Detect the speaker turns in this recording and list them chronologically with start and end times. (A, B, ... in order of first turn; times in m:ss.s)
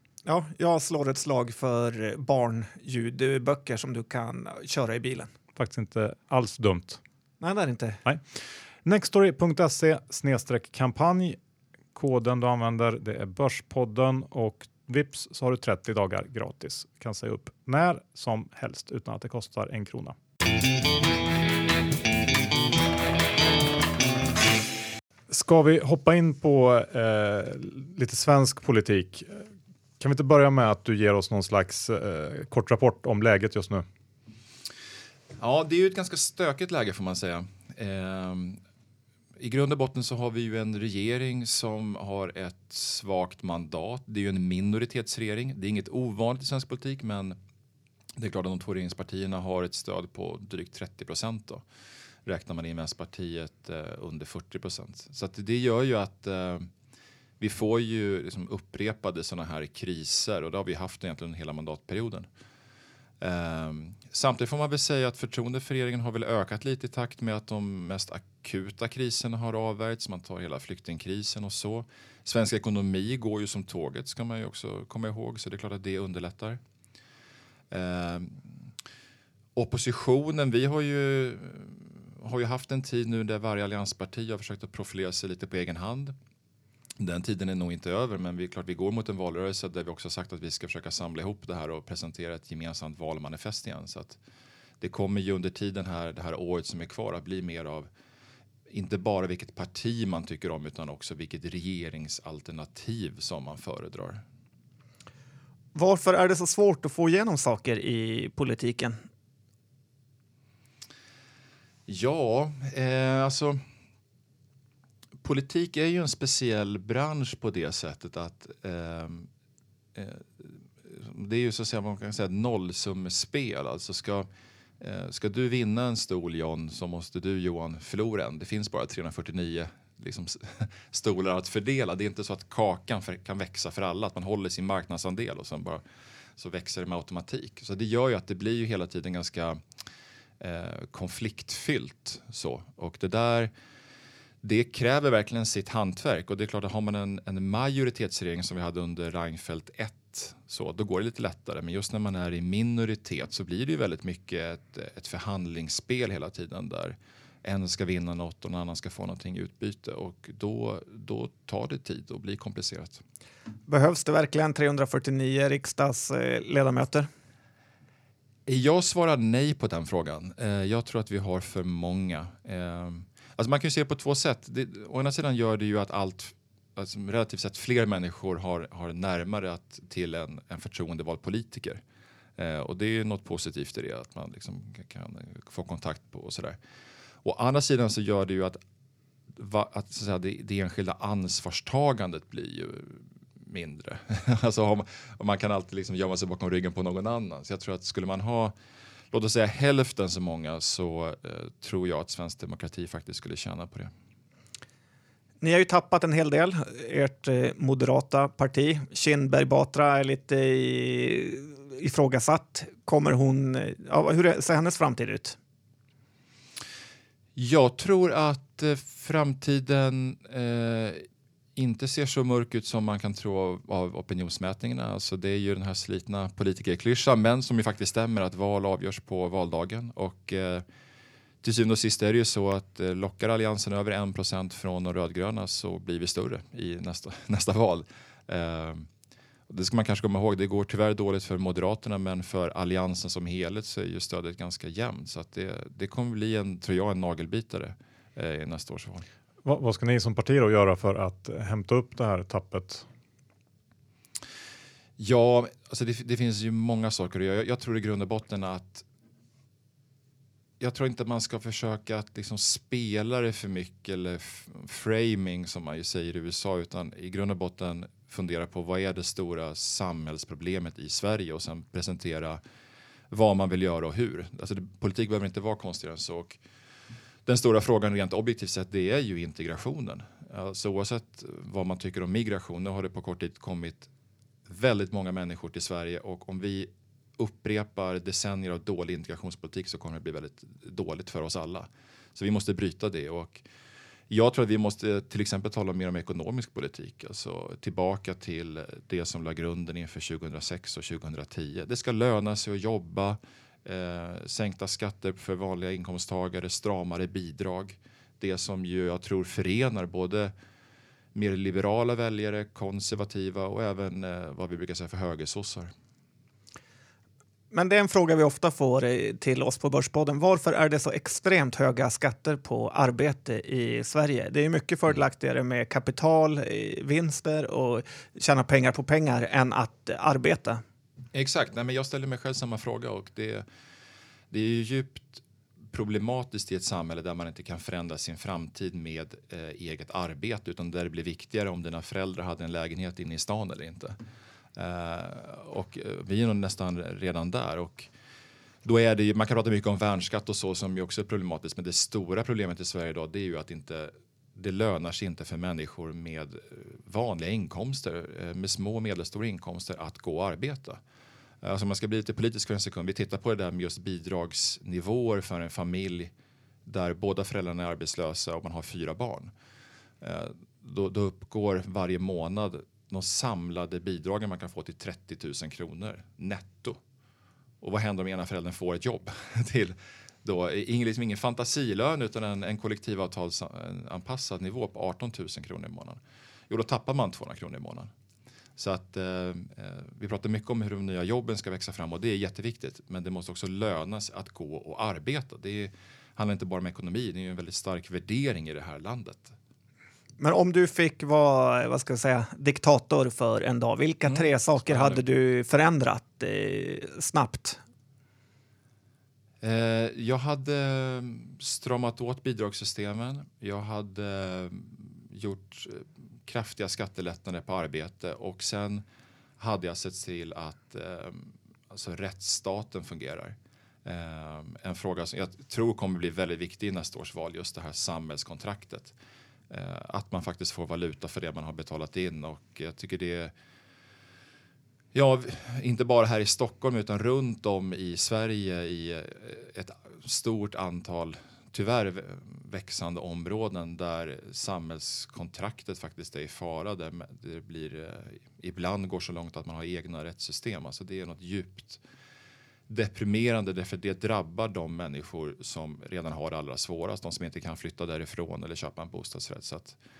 0:00.2-0:05.3 A
0:05.6-0:07.0 B
0:07.4-0:08.0 A
0:08.8-0:11.4 B
0:11.9-0:20.1 B
0:25.3-0:29.4 B
0:30.0-0:33.8 B
0:35.4-0:38.6 C
0:39.4-0:47.4 C
0:48.2-0:51.6 C
0:52.2-0:56.7 C
0:57.4-1:02.3 C
1:03.2-1:16.6 C
1:17.7-1:18.5 C
1:19.6-1:26.1 C
1:27.0-1:34.2 C
1:34.8-1:37.9 C
1:38.7-1:44.2 C
1:45.7-1:49.0 A
1:51.9-1:53.6 C
1:55.2-1:59.3 C
1:59.9-2:04.3 C
2:04.8-2:15.8 C
2:16.4-2:19.6 C
2:20.4-2:23.5 C
2:24.4-2:43.0 C
2:43.7-2:47.1 A
2:48.5-3:01.8 C
3:02.4-3:06.6 C
3:07.2-3:08.6 C
3:09.3-3:18.5 C
3:19.1-3:23.9 C
3:25.4-3:35.4 A
3:37.4-3:50.6 C
3:51.4-3:58.9 C
3:59.5-4:09.0 C
4:09.4-4:12.8 B
4:15.0-4:18.8 C
4:20.6-4:32.4 C
4:33.1-4:36.4 C
4:37.2-4:43.9 C
4:44.5-4:53.4 C
4:54.1-5:10.3 C
5:11.1-5:15.7 C
5:17.5-5:30.6 A
5:31.1-5:33.4 C
5:34.3-5:44.0 C
5:44.6-5:47.9 C
5:48.6-6:00.8 C
6:01.4-6:06.1 C
6:06.6-6:09.3 C
6:10.0-6:16.8 C
6:17.6-6:27.9 C
6:28.6-6:39.3 C
6:40.2-6:47.6 A
6:44.0-6:45.0 C
6:49.4-6:58.8 C
6:59.4-7:08.9 C
7:09.5-7:13.3 C
7:14.9-7:31.8 C
7:32.7-7:39.8 C